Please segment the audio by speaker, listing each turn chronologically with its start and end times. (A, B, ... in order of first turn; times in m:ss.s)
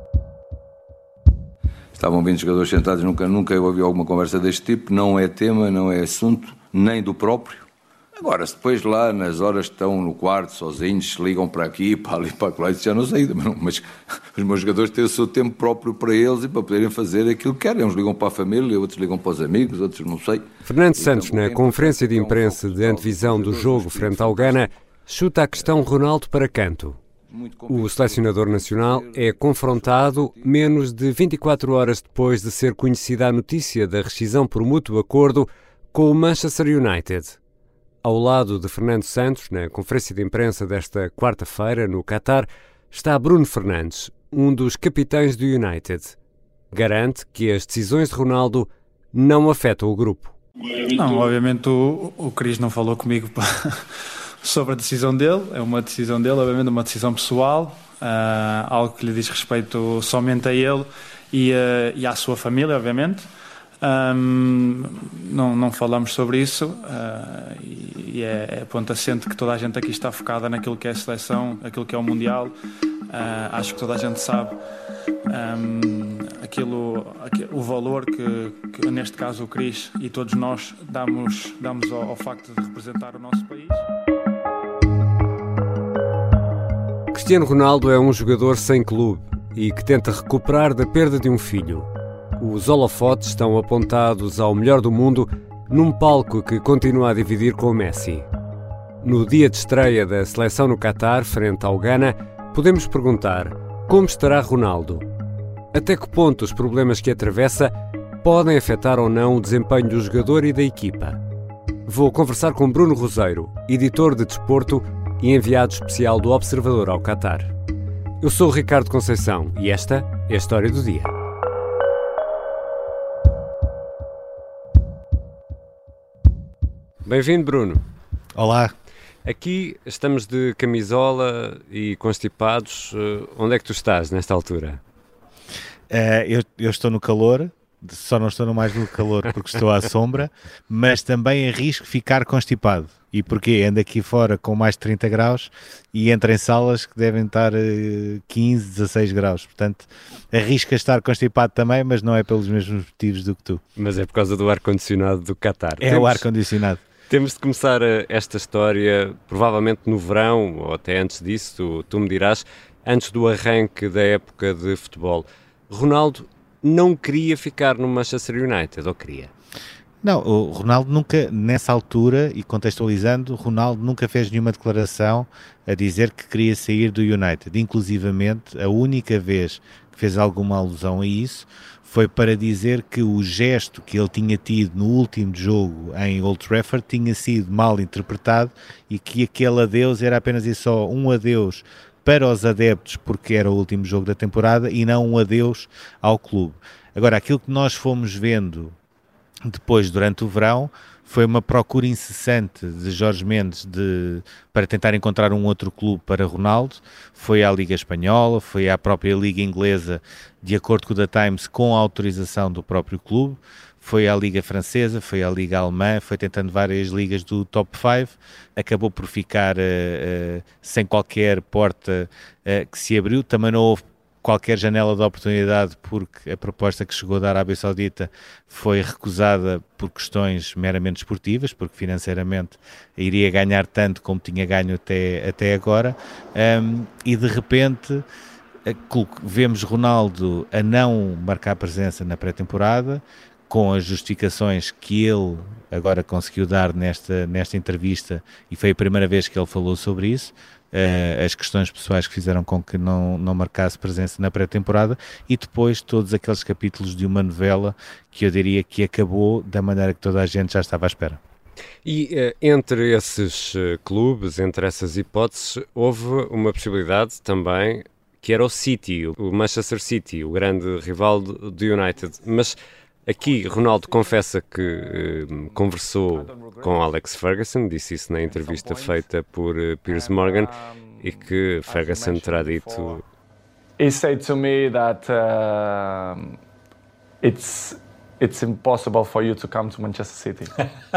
0:01.9-0:24.7 A
0:20.6-0:27.0 B
0:27.3-0:30.8 A
0:27.7-0:37.4 B
0:38.0-0:46.2 B
0:46.7-0:50.3 B
0:50.8-1:03.3 C
1:03.8-1:12.5 C
1:13.1-1:14.6 C
1:15.3-1:23.8 C
1:27.1-1:31.9 B
1:32.4-1:38.3 B
1:39.0-1:45.0 B
1:45.7-1:51.2 B
1:51.9-1:57.5 B
1:58.2-2:01.1 B
2:07.0-2:07.8 B
2:08.4-2:08.7 D
2:09.2-2:14.8 B
2:15.9-2:33.6 D
2:33.8-2:36.3 B
2:35.8-2:36.8 D
2:37.1-2:49.3 B
2:50.0-3:18.8 D
3:19.4-3:58.0 D
3:58.6-4:21.2 D
4:21.8-4:43.0 B
4:33.2-4:36.9 E
4:38.2-4:39.1 E
4:39.9-4:43.0 E
4:43.8-4:46.4 E
4:47.2-4:50.6 E